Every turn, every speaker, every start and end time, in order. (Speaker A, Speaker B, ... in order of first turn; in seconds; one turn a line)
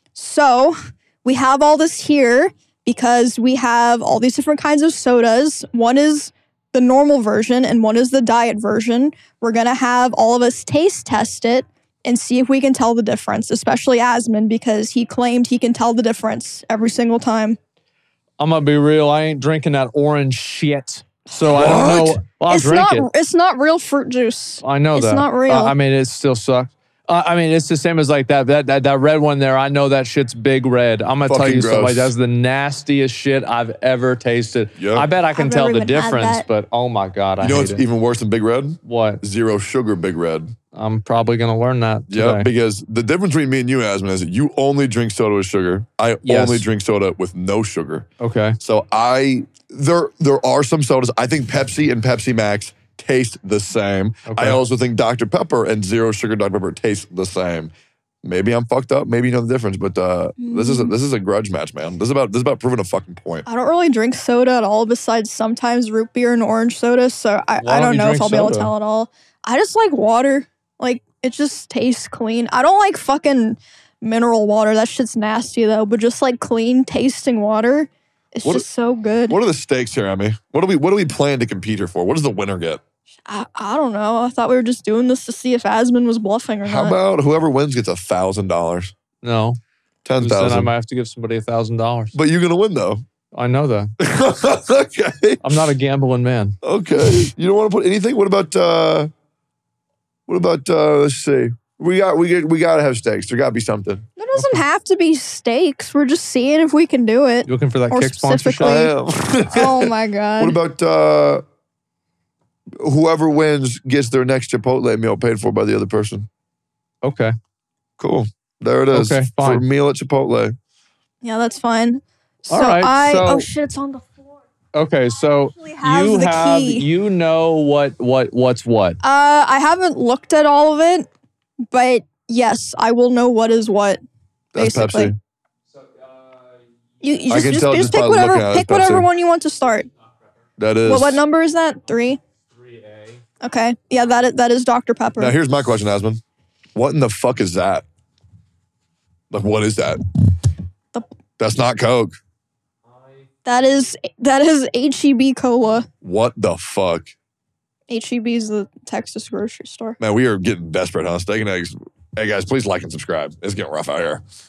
Speaker A: 0.1-17.6
Speaker B: 18.4-23.1
Speaker C: 21.5-22.2
Speaker A: 22.5-25.7
Speaker B: 24.6-37.8
Speaker C: 31.2-32.1
Speaker C: 34.8-35.1
Speaker A: 35.3-36.4
Speaker C: 37.4-40.5
Speaker B: 38.8-39.2
Speaker B: 40.7-42.5
Speaker C: 42.1-48.1
Speaker B: 46.2-46.7
Speaker B: 48.2-48.6
Speaker C: 48.6-63.5
Speaker B: 54.2-54.6
Speaker A: 60.4-60.9
Speaker A: 63.5-79.4
Speaker B: 67.6-68.7
Speaker C: 79.3-82.8
Speaker A: 83.2-87.0
Speaker C: 86.6-88.9
Speaker B: 89.2-89.6
Speaker C: 90.0-90.7
Speaker B: 90.2-92.2
Speaker C: 92.1-93.0
Speaker B: 93.3-93.9
Speaker C: 94.0-95.4
Speaker B: 95.4-96.6
Speaker C: 96.6-99.1
Speaker C: 100.3-104.1
Speaker A: 104.2-110.6
Speaker B: 104.3-104.6
Speaker B: 107.5-108.8
Speaker C: 108.6-111.5
Speaker C: 112.8-116.3
Speaker B: 117.0-117.3
Speaker C: 118.0-120.5
Speaker B: 118.9-119.6
Speaker A: 121.2-124.4
Speaker B: 122.5-123.5
Speaker B: 124.7-129.0
Speaker A: 125.4-126.8
Speaker A: 129.0-131.1
Speaker A: 131.7-134.0
Speaker C: 134.5-135.2
Speaker A: 134.6-135.1
Speaker B: 135.7-137.3
Speaker A: 137.0-139.9
Speaker C: 137.3-139.1
Speaker B: 139.6-140.5
Speaker C: 140.6-141.2
Speaker A: 140.8-142.2
Speaker B: 142.4-143.2
Speaker A: 143.4-145.4
Speaker C: 145.2-146.2
Speaker C: 146.8-147.8
Speaker C: 149.3-150.0
Speaker C: 151.4-152.2
Speaker B: 152.8-153.3
Speaker A: 153.4-155.9
Speaker C: 156.0-157.1
Speaker A: 157.9-160.0
Speaker C: 160.0-164.2